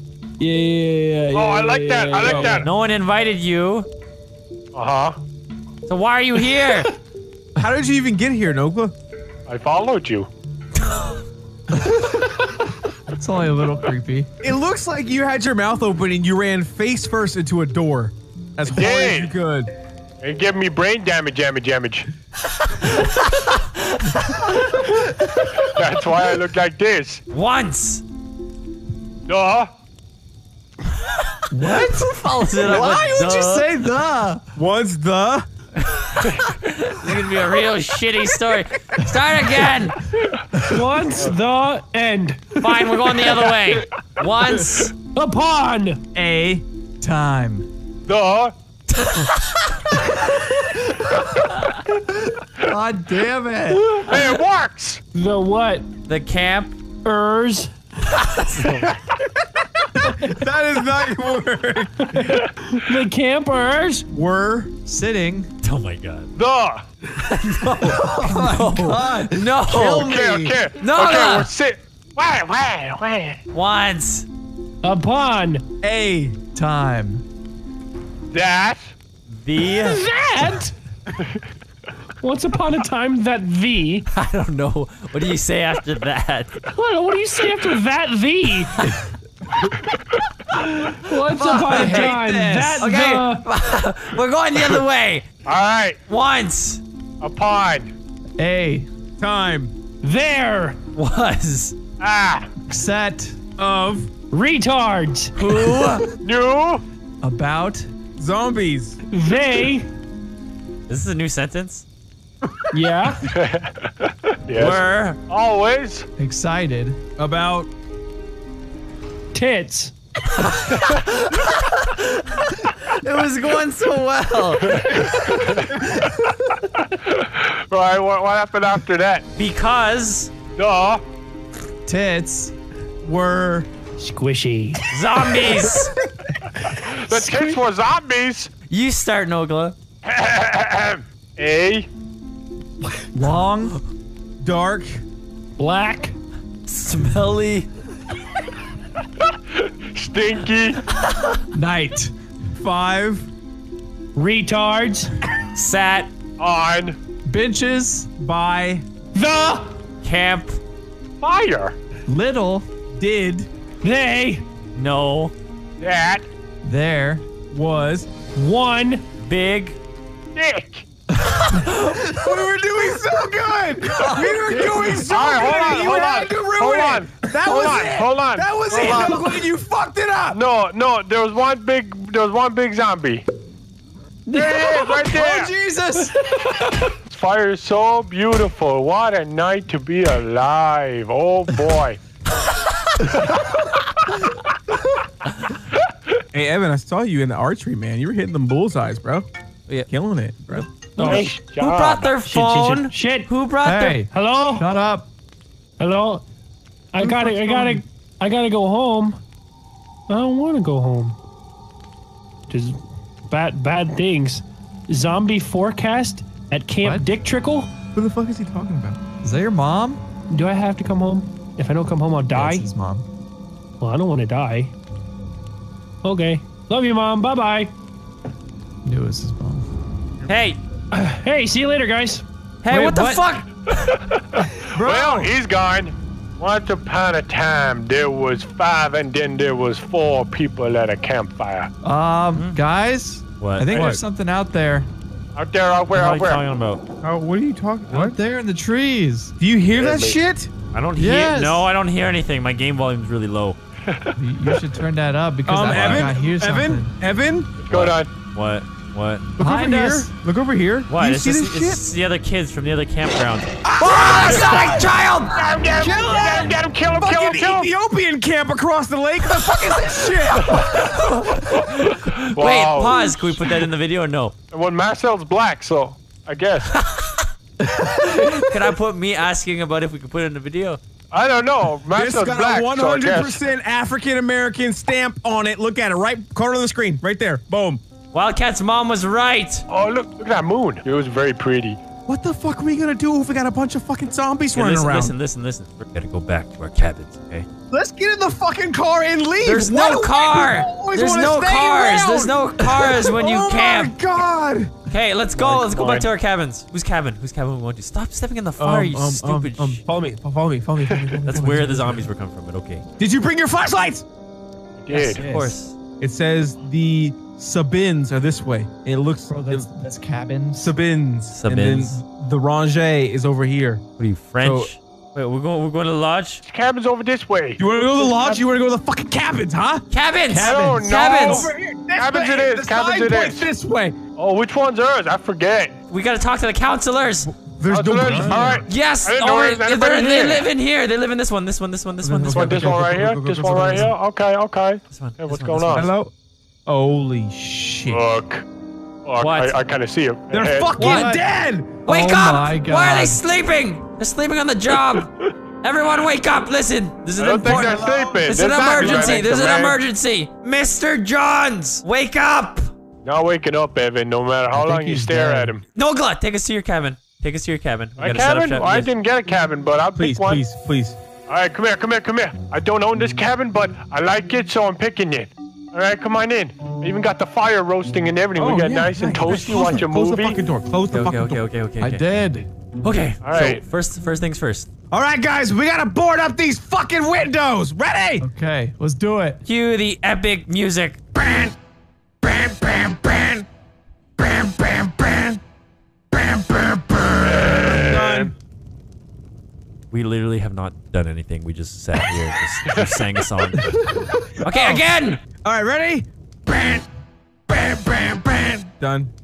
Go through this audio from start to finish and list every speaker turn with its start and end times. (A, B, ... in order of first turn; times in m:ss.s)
0:00.4-0:01.0 A
0:00.6-0:02.2 B
0:01.3-0:02.7 C
0:02.2-0:02.6 D
0:02.3-0:03.9 E
0:04.7-0:05.2 C
0:05.9-0:06.9 E
0:07.6-0:08.9 D
0:09.5-0:10.3 C
0:11.8-0:12.4 A
0:13.1-0:14.3 A
0:14.4-0:19.7 D
0:18.7-0:19.3 C
0:20.2-0:22.1 C
0:22.8-0:24.5 E
0:25.5-0:27.2 C
0:27.3-0:28.0 E
0:29.3-0:29.7 C
0:31.5-0:34.5 A
0:31.6-0:33.7 E
0:34.6-0:35.5 D
0:35.8-0:40.0 E
0:40.7-0:42.5 B
0:42.6-0:44.9 E
0:45.1-0:46.0 B
0:46.2-0:46.6 D
0:47.0-0:47.7 A
0:48.1-0:48.5 C
0:49.0-0:49.8 E
0:52.6-0:54.2 A
0:54.0-0:55.0 C
0:55.1-0:55.9 B
0:56.1-0:56.8 E
0:57.0-0:57.7 B
0:58.1-0:58.9 E
1:00.0-1:02.3 D
1:02.3-1:02.9 C
1:02.9-1:04.1 B
1:04.1-1:04.7 D
1:04.9-1:05.5 A
1:05.6-1:06.3 E
1:06.4-1:06.8 C
1:07.2-1:10.1 E
1:07.8-1:09.7 A
1:09.7-1:10.6 D
1:09.9-1:13.4 C
1:10.8-1:11.5 E
1:13.5-1:14.3 E
1:14.8-1:15.6 B
1:15.8-1:16.4 D
1:16.5-1:17.2 A
1:18.3-1:18.9 C
1:19.3-1:20.0 E
1:19.8-1:20.8 B
1:21.2-1:21.4 C
1:22.2-1:24.1 B
1:24.1-1:26.6 E
1:26.7-1:28.8 B
1:31.0-1:33.4 B
1:31.4-1:32.9 D
1:31.4-1:32.2 E
1:32.8-1:35.3 E
1:35.5-1:36.0 C
1:36.1-1:36.8 E
1:37.2-1:37.9 C
1:38.4-1:38.9 A
1:39.2-1:39.7 D
1:40.0-1:40.8 B
1:41.0-1:41.8 E
1:42.0-1:42.5 C
1:42.7-1:43.4 A
1:43.6-1:44.1 D
1:44.3-1:45.3 B
1:45.4-1:46.1 E
1:46.2-1:46.8 C
1:47.2-1:47.9 A
1:48.2-1:49.0 D
1:49.1-1:49.9 B
1:50.9-1:51.8 E
1:52.7-1:53.2 B
1:53.3-1:56.1 C
1:54.6-1:55.2 E
1:56.2-1:57.0 A
1:57.2-1:57.7 D
1:59.3-1:59.9 B
2:00.4-2:05.3 E
2:04.7-2:09.2 C
2:09.4-2:10.3 E
2:10.6-2:11.0 C
2:11.9-2:12.5 A
2:13.1-2:13.4 A
2:13.1-2:13.6 D
2:14.0-2:14.8 B
2:14.9-2:16.0 E
2:16.8-2:18.5 C
2:18.7-2:19.8 E
2:20.0-2:21.9 C
2:23.1-2:23.8 A
2:24.4-2:25.0 D
2:25.6-2:26.2 B
2:26.7-2:27.7 E
2:29.5-2:30.8 C
2:31.5-2:32.1 A
2:32.5-2:33.3 D
2:34.2-2:35.1 B
2:35.6-2:36.1 E
2:36.4-2:37.0 C
2:37.3-2:38.1 A
2:38.2-2:38.8 D
2:39.2-2:39.7 B
2:40.0-2:40.6 E
2:41.2-2:41.8 C
2:42.1-2:42.6 A
2:43.0-2:43.5 D
2:43.8-2:44.5 B
2:44.8-2:45.3 E
2:45.8-2:46.3 C
2:46.6-2:47.2 A
2:47.5-2:48.1 D
2:48.4-2:49.0 B
2:49.2-2:49.8 E
2:50.4-2:50.8 C
2:51.9-3:00.4 D
2:54.0-2:54.9 A
2:55.0-2:59.2 C
2:58.8-2:59.3 A
3:00.3-3:03.2 C
3:04.3-3:06.8 A
3:04.3-3:05.5 C
3:07.0-3:12.0 C
3:16.3-3:19.3 D
3:19.9-3:20.7 D
3:20.5-3:24.0 E
3:21.0-3:21.3 A
3:21.0-3:22.3 C
3:22.3-3:23.3 B
3:23.6-3:25.1 A
3:24.1-3:24.6 B
3:25.8-3:26.2 B
3:26.9-3:29.2 B
3:27.0-3:27.8 D
3:30.1-3:31.2 B
3:32.5-3:37.7 B
3:36.8-3:37.1 A
3:38.0-3:39.0 D
3:39.2-3:40.0 A
3:40.3-3:42.7 B
3:42.3-3:43.0 A
3:43.8-3:44.7 B
3:46.0-3:47.7 B
3:48.8-3:49.7 A
3:50.3-3:50.6 E
3:51.0-3:52.2 B
3:52.6-3:53.5 E
3:52.7-3:53.2 A
3:53.7-4:01.7 C
3:54.8-3:55.3 D
4:01.8-4:04.9 A
4:03.4-4:03.7 E
4:03.7-4:04.0 D
4:05.4-4:06.4 C
4:05.9-4:06.8 E
4:07.0-4:08.2 D
4:07.9-4:09.3 A
4:09.4-4:10.5 D
4:09.7-4:10.2 C
4:10.7-4:13.6 E
4:11.0-4:11.7 A
4:13.9-4:14.1 C
4:14.2-4:16.9 A
4:15.5-4:17.5 D
4:15.7-4:16.1 E
4:17.6-4:18.1 C
4:17.7-4:19.3 E
4:19.4-4:21.8 D
4:19.4-4:20.1 A
4:20.9-4:25.6 E
4:23.6-4:24.9 D
4:24.0-4:27.7 C
4:25.7-4:30.6 D
4:30.3-4:34.3 E
4:32.2-4:33.4 C
4:34.5-4:36.7 C
4:36.8-4:37.2 E
4:38.0-4:40.8 E
4:41.1-4:43.4 C
4:42.0-4:47.8 D
4:48.1-4:49.6 E
4:49.7-4:51.8 C
4:52.1-4:55.2 D
4:54.5-4:57.5 E
4:57.7-5:04.7 D
4:59.4-5:04.0 E
5:04.9-5:09.8 E
5:05.3-5:06.1 C
5:08.6-5:12.1 D
5:10.8-5:11.2 C
5:11.2-5:12.9 E
5:13.0-5:14.0 D
5:14.8-5:15.2 C
5:14.9-5:15.8 E
5:15.1-5:15.5 A
5:16.0-5:19.7 D
5:19.3-5:20.8 A
5:20.6-5:23.8 D
5:21.3-5:22.0 E
5:24.0-5:26.4 E
5:24.4-5:24.7 D
5:26.5-5:28.4 C
5:27.6-5:34.0 D
5:29.9-5:31.5 E
5:30.3-5:33.5 C
5:30.4-5:30.8 A
5:34.2-5:35.8 C
5:35.9-5:37.3 E
5:37.3-5:38.7 D
5:37.7-5:40.5 C
5:38.6-5:42.8 E
5:42.0-5:43.9 D
5:42.3-5:45.9 C
5:44.9-5:45.9 E
5:45.7-5:46.1 D
5:46.7-5:48.0 D
5:47.9-5:48.4 C
5:49.0-5:50.9 C
5:49.2-5:49.6 E
5:50.3-5:51.8 D
5:50.8-5:51.2 E
5:50.8-5:51.3 A
5:51.9-5:55.1 E
5:51.9-5:53.2 A
5:55.6-6:02.6 E
5:57.2-5:59.8 C
5:57.4-5:59.3 D
6:03.0-6:05.6 C
6:04.5-6:05.5 D
6:05.8-6:08.9 E
6:08.0-6:10.5 C
6:10.0-6:11.0 D
6:11.3-6:20.4 C
6:18.4-6:21.4 D
6:20.9-6:22.1 E
6:21.8-6:22.5 A
6:22.8-6:24.7 E
6:23.2-6:23.6 C
6:24.9-6:28.3 D
6:28.2-6:29.4 A
6:29.4-6:31.0 E
6:31.2-6:31.5 D
6:32.2-6:33.4 D
6:34.2-6:35.4 D
6:36.1-6:38.3 D
6:37.2-6:38.3 C
6:39.9-6:43.9 E
6:42.6-6:43.0 C
6:44.4-6:45.2 E
6:45.4-6:46.8 D
6:47.5-6:49.1 D